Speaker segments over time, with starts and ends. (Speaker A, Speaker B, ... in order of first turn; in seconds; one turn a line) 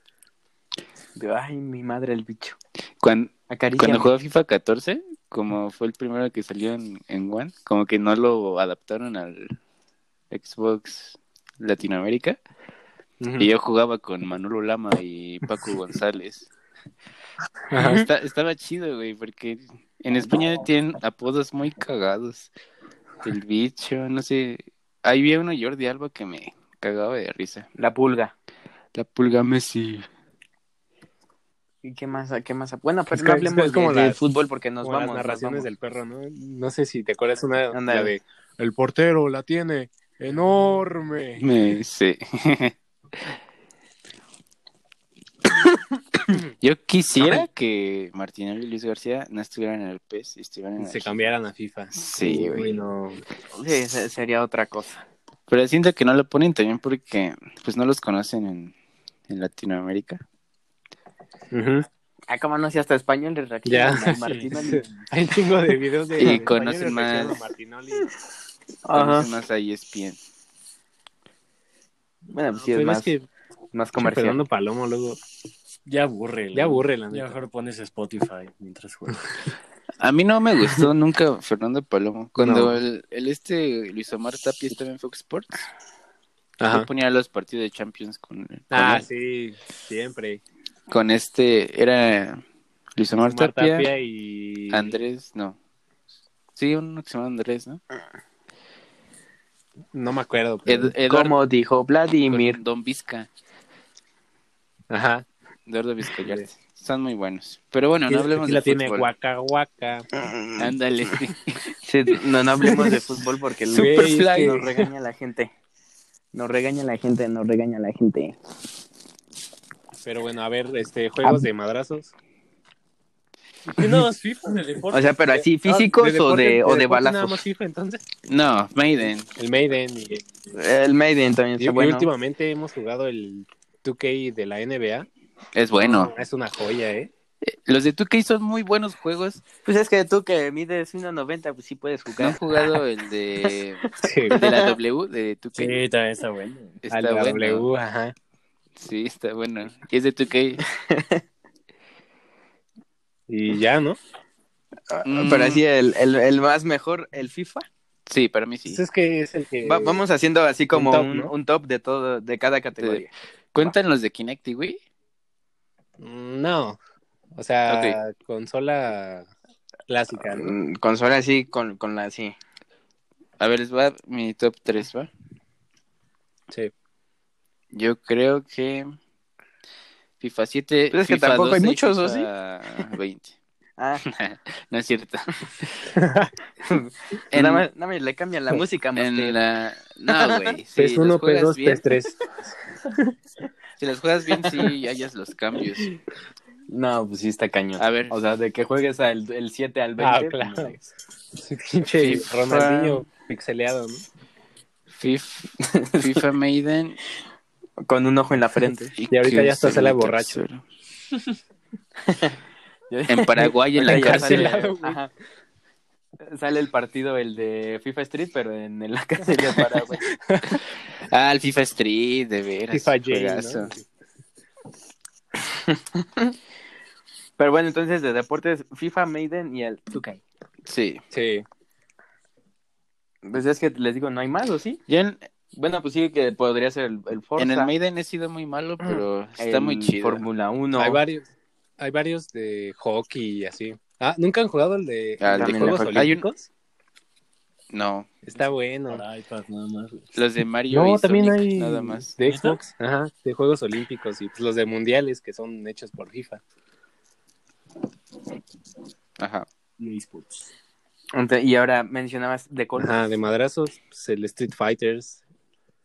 Speaker A: 1.1-2.6
Speaker B: 3.0-9.6
Speaker A: 3.5-4.1
Speaker B: 10.3-12.4
Speaker C: 13.2-13.5
Speaker B: 13.4-16.5
Speaker C: 17.7-18.1
Speaker B: 17.7-22.5
Speaker A: 17.8-18.0
Speaker B: 23.2-27.7
Speaker A: 27.8-28.3
Speaker B: 28.9-30.1
Speaker A: 31.8-35.7
Speaker C: 33.1-34.2
Speaker C: 34.8-41.5
Speaker A: 37.7-38.1
Speaker B: 41.4-42.7
Speaker B: 46.6-51.3
Speaker C: 50.8-53.2
Speaker B: 51.9-52.8
Speaker A: 53.5-55.0
Speaker B: 55.5-58.7
Speaker B: 59.3-60.2
Speaker C: 61.5-61.9
Speaker A: 62.3-64.9
Speaker C: 63.6-68.1
Speaker D: 64.2-65.0
Speaker B: 66.2-67.4
Speaker A: 68.8-69.3
Speaker B: 68.9-70.2
Speaker A: 72.3-73.1
Speaker C: 72.6-73.3
Speaker A: 73.7-74.4
Speaker C: 74.0-75.2
Speaker D: 75.8-79.3
Speaker C: 76.5-77.4
Speaker B: 80.0-85.7
Speaker C: 82.4-82.8
Speaker C: 86.6-86.9
Speaker B: 86.6-89.0
Speaker C: 88.7-90.4
Speaker B: 90.9-92.4
Speaker B: 93.0-93.9
Speaker C: 93.3-95.0
Speaker B: 94.7-95.5
Speaker B: 96.5-97.8
Speaker C: 99.9-100.9
Speaker B: 100.7-101.3
Speaker A: 101.1-102.6
Speaker B: 102.3-103.3
Speaker C: 104.9-105.2
Speaker B: 105.7-109.1
Speaker C: 108.1-110.1
Speaker A: 110.2-110.7
Speaker B: 110.6-111.6
Speaker A: 111.8-115.5
Speaker C: 112.7-113.0
Speaker C: 113.7-114.9
Speaker B: 114.0-114.6
Speaker A: 116.3-118.4
Speaker C: 120.0-122.1
Speaker D: 123.7-125.9
Speaker A: 124.9-127.4
Speaker C: 125.9-128.0
Speaker B: 128.2-129.3
Speaker C: 129.3-130.3
Speaker A: 130.5-132.1
Speaker C: 131.6-135.1
Speaker B: 135.5-136.1
Speaker C: 135.8-137.1
Speaker B: 137.4-139.4
Speaker A: 139.6-142.7
Speaker B: 142.2-145.8
Speaker C: 144.0-144.4
Speaker A: 144.3-144.7
Speaker D: 145.6-146.8
Speaker B: 146.8-147.7
Speaker C: 146.9-148.1
Speaker B: 148.8-150.6
Speaker A: 150.7-151.2
Speaker C: 153.3-154.0
Speaker A: 154.9-157.7
Speaker B: 155.0-155.6
Speaker B: 158.1-158.8
Speaker C: 158.7-160.0
Speaker A: 159.6-163.1
Speaker C: 160.7-161.3
Speaker B: 162.8-164.8
Speaker C: 166.0-166.8
Speaker C: 167.3-169.3
Speaker B: 167.7-168.0
Speaker C: 169.9-170.5
Speaker A: 170.2-172.3
Speaker B: 173.4-175.1
Speaker B: 177.7-178.9
Speaker B: 180.2-183.3
Speaker A: 180.9-182.3
Speaker A: 183.8-184.0
Speaker B: 184.0-185.3
Speaker C: 185.9-186.3
Speaker A: 186.6-189.3
Speaker B: 187.3-187.6
Speaker B: 188.9-191.8
Speaker A: 190.0-190.5
Speaker C: 190.8-192.2
Speaker B: 193.8-195.9
Speaker A: 196.7-200.9
Speaker B: 197.8-198.1
Speaker C: 200.0-200.8
Speaker C: 201.3-204.0
Speaker B: 202.0-203.0
Speaker B: 204.9-207.0
Speaker A: 205.6-206.2
Speaker A: 207.8-208.9
Speaker B: 209.0-210.6
Speaker C: 209.1-210.4
Speaker A: 212.1-212.3
Speaker A: 212.9-215.1
Speaker B: 213.1-214.5
Speaker C: 213.7-215.0
Speaker A: 216.2-220.0
Speaker C: 220.2-220.6
Speaker B: 221.0-223.7
Speaker C: 222.7-223.8
Speaker A: 225.5-226.3
Speaker A: 227.4-230.2
Speaker B: 230.7-231.0
Speaker C: 231.1-231.4
Speaker A: 233.2-234.8
Speaker B: 234.9-235.2
Speaker A: 235.6-237.7
Speaker B: 237.4-240.2
Speaker A: 239.4-241.0
Speaker C: 240.8-241.3
Speaker C: 241.8-246.5
Speaker B: 245.2-246.2
Speaker A: 245.3-246.0
Speaker B: 247.7-248.1
Speaker C: 248.2-249.0
Speaker D: 248.3-250.1
Speaker B: 250.1-252.1
Speaker C: 250.7-256.4
Speaker D: 252.2-252.6
Speaker B: 259.2-259.4
Speaker D: 259.8-260.5
Speaker A: 261.1-263.0
Speaker C: 262.8-265.2